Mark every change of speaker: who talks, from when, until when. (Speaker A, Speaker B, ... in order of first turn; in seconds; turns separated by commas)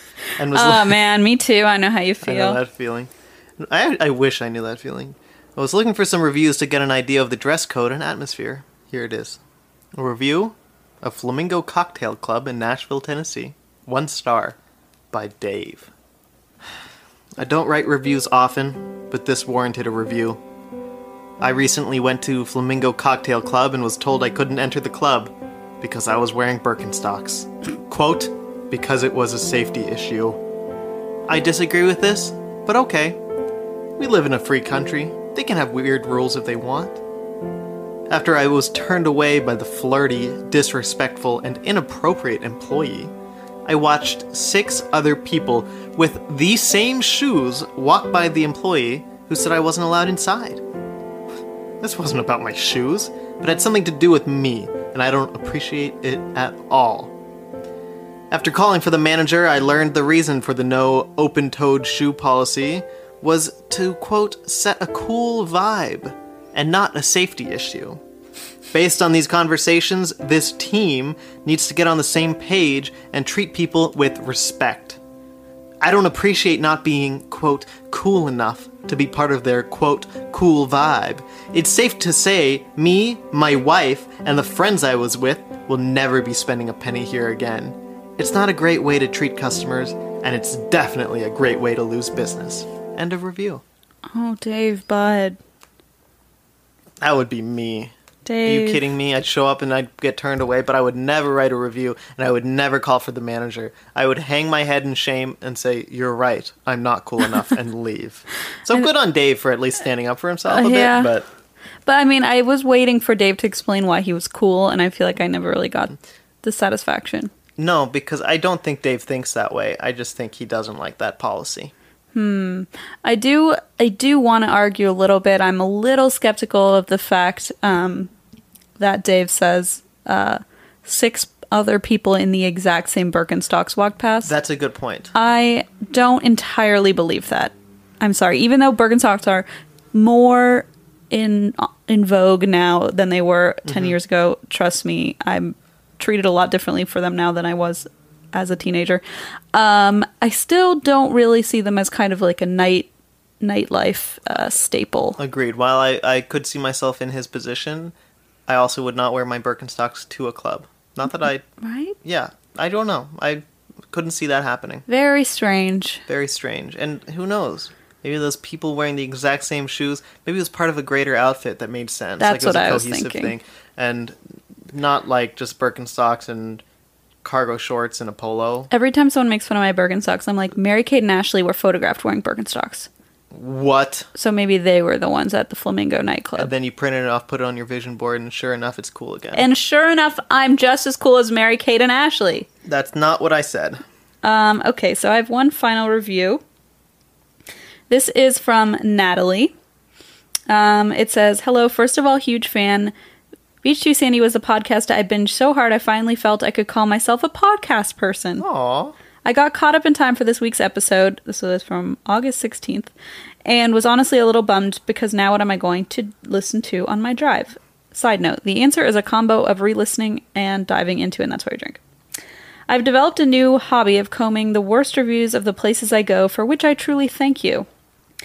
Speaker A: 0.4-1.0, Speaker B: 0.5-2.6, Speaker A: 2.2-9.4, Speaker A: 9.9-14.6, Speaker A: 15.1-15.9, Speaker A: 17.4-20.4, Speaker A: 21.4-30.4, Speaker A: 31.3-33.2, Speaker A: 34.0-37.0, Speaker A: 38.1-43.1, Speaker A: 43.6-50.6, Speaker A: 51.8-57.1, Speaker A: 58.3-68.0, Speaker A: 68.7-75.0, Speaker A: 75.8-93.6, Speaker B: 94.1-95.4, Speaker A: 97.0-97.9, Speaker B: 98.2-98.9, Speaker A: 98.4-111.2, Speaker B: 110.5-111.1, Speaker B: 111.8-117.3, Speaker A: 117.6-121.7, Speaker B: 122.1-128.1, Speaker B: 128.8-134.3, Speaker A: 134.2-135.1, Speaker B: 135.1-149.0, Speaker A: 143.7-144.0, Speaker B: 149.5-152.9, Speaker B: 153.4-155.2, Speaker A: 155.2-157.9, Speaker A: 158.5-161.4, Speaker B: 161.6-161.9, Speaker A: 162.0-164.8, Speaker B: 164.9-166.0, Speaker A: 166.1-174.2, Speaker B: 172.2-173.3, Speaker A: 174.7-176.6, Speaker A: 177.2-178.7, Speaker B: 178.7-182.9, Speaker A: 183.3-184.1, Speaker B: 184.1-186.5, Speaker A: 186.4-189.5, Speaker B: 189.3-192.5, Speaker A: 192.6-193.8, Speaker B: 194.2-196.4, Speaker B: 197.9-199.5, Speaker B: 200.5-202.9, Speaker B: 203.6-208.4, Speaker A: 208.4-208.9, Speaker B: 209.2-212.9, Speaker B: 213.4-221.8, Speaker B: 222.7-227.7